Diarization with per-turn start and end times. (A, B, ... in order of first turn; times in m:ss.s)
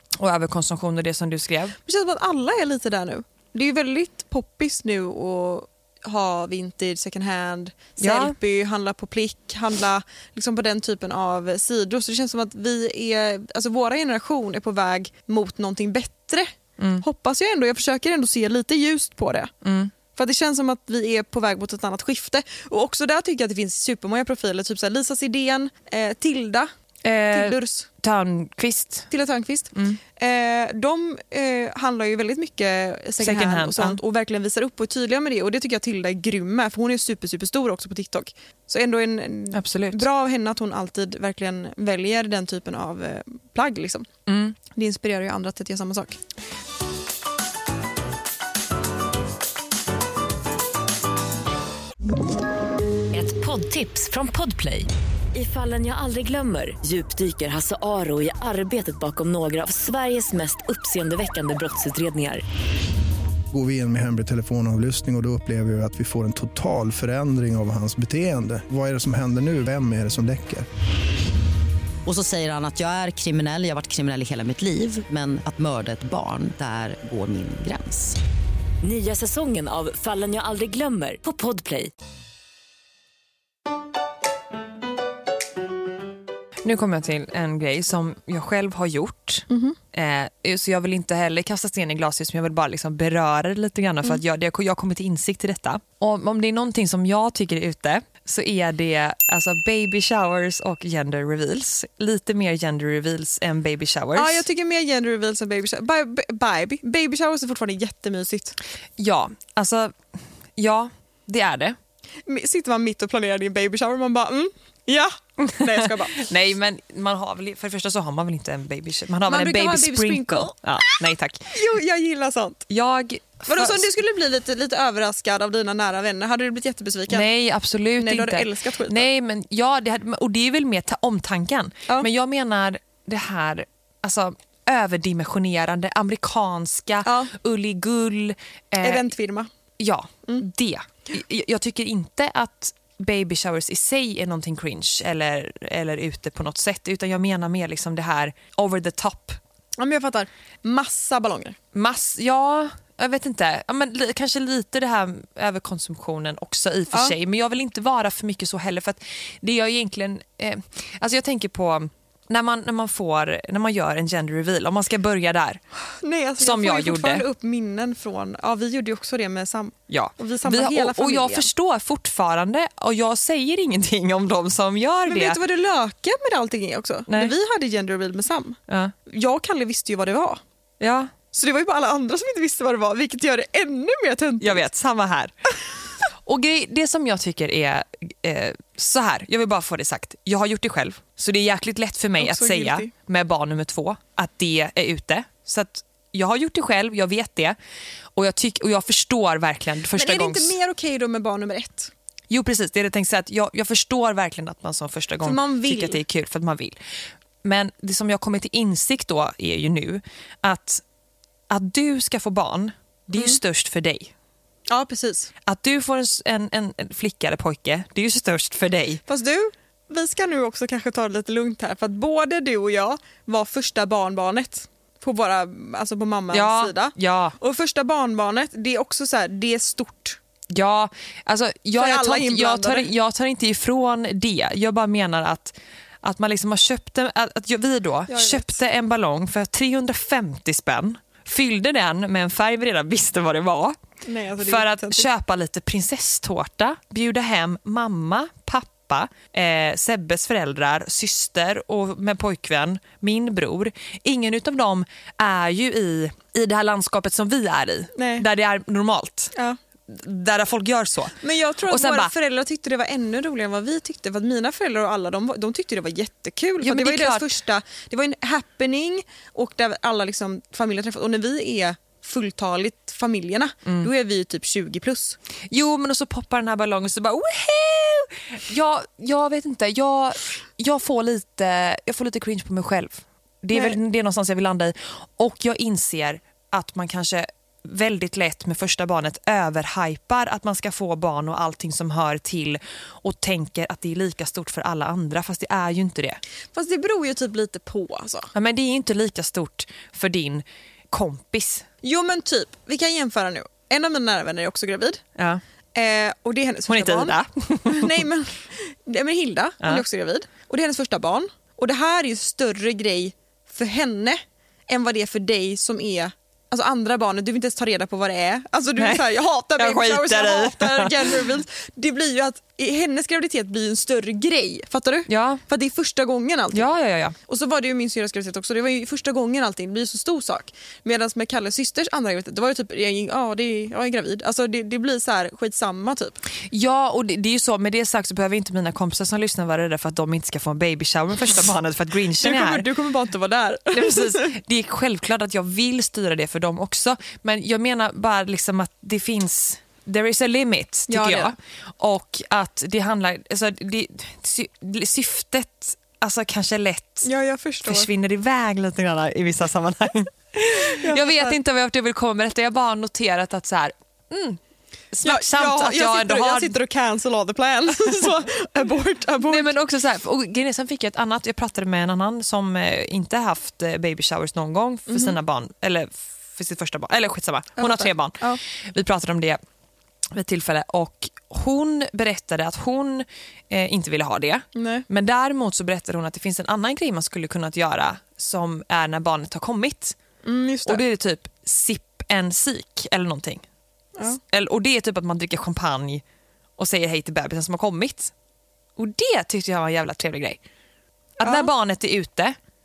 0:00.2-0:01.8 A
0:01.8-0:19.5 B
0:08.0-0:08.4 A
0:16.8-0:17.0 A
0:19.6-0:19.9 A
0:20.1-0:26.7 B
0:27.0-0:29.1 A
0:27.3-0:27.9 B
0:29.1-0:44.1 B
0:29.7-0:30.0 A
0:33.2-0:34.0 A
0:39.5-0:40.1 A
0:44.3-0:44.6 A
0:44.7-0:46.2 B
0:53.1-1:02.4 C
1:03.5-1:10.7 D
1:12.1-1:18.2 E
1:18.8-1:21.9 C
1:26.6-1:44.4 A
1:29.5-1:29.8 B
1:44.1-1:48.6 B
1:49.0-1:50.0 A
1:50.6-1:51.8 A
1:52.3-1:56.2 B
1:55.6-2:01.5 A
1:59.3-2:00.5 B
2:01.5-2:02.6 B
2:02.7-2:03.9 A
2:03.4-2:07.3 B
2:07.1-2:19.1 A
2:08.0-2:09.1 B
2:17.0-2:17.3 B
2:18.8-2:19.5 B
2:19.8-2:29.4 A
2:29.8-2:31.6 B
2:31.7-2:45.6 A
2:46.0-2:51.5 B
2:46.4-2:47.2 A
2:49.9-2:55.4 A
2:55.1-3:00.4 B
2:57.1-2:57.4 A
2:58.7-2:58.9 A
3:00.8-3:01.1 A
3:01.3-3:04.6 B
3:04.4-3:05.3 A
3:06.2-3:17.6 A
3:12.2-3:12.9 B
3:18.1-3:20.5 A
3:19.9-3:21.9 B
3:22.3-3:26.8 A
3:25.2-3:26.0 B
3:27.4-3:30.8 A
3:31.5-3:34.1 A
3:34.7-3:35.3 B
3:35.4-3:39.0 A
3:39.1-3:50.2 B
3:46.3-3:47.4 A
3:50.5-4:03.8 A
3:51.7-3:52.9 B
3:58.1-3:58.6 B
4:04.0-4:05.1 B
4:04.4-4:19.3 A
4:18.0-4:18.2 B
4:19.3-4:19.6 B
4:19.9-4:22.1 A
4:21.2-4:35.2 B
4:26.6-4:27.3 A
4:35.5-4:56.2 A
4:56.5-4:58.3 B
4:58.3-5:01.7 A
5:01.8-5:05.0 B
5:05.2-5:05.4 A
5:05.7-5:26.7 B
5:06.7-5:08.0 A
5:18.8-5:21.3 A
5:25.1-5:25.4 A
5:26.5-5:27.2 A
5:27.3-5:36.2 B
5:36.5-5:42.7 A
5:42.2-5:44.3 B
5:43.7-5:57.1 A
5:50.9-5:51.3 B
5:57.0-5:57.9 B
5:57.6-6:04.4 A
6:00.6-6:01.4 B
6:04.9-6:06.6 A
6:05.0-6:09.5 B
6:09.3-6:19.4 A
6:14.9-6:15.2 B
6:17.6-6:18.4 B
6:20.1-6:30.0 A
6:24.6-6:24.9 B
6:30.2-6:30.8 B
6:30.7-6:33.4 A
6:34.2-6:36.0 A
6:36.6-6:38.1 A
6:38.8-6:40.4 A
6:41.2-6:42.4 A
6:41.2-6:41.5 B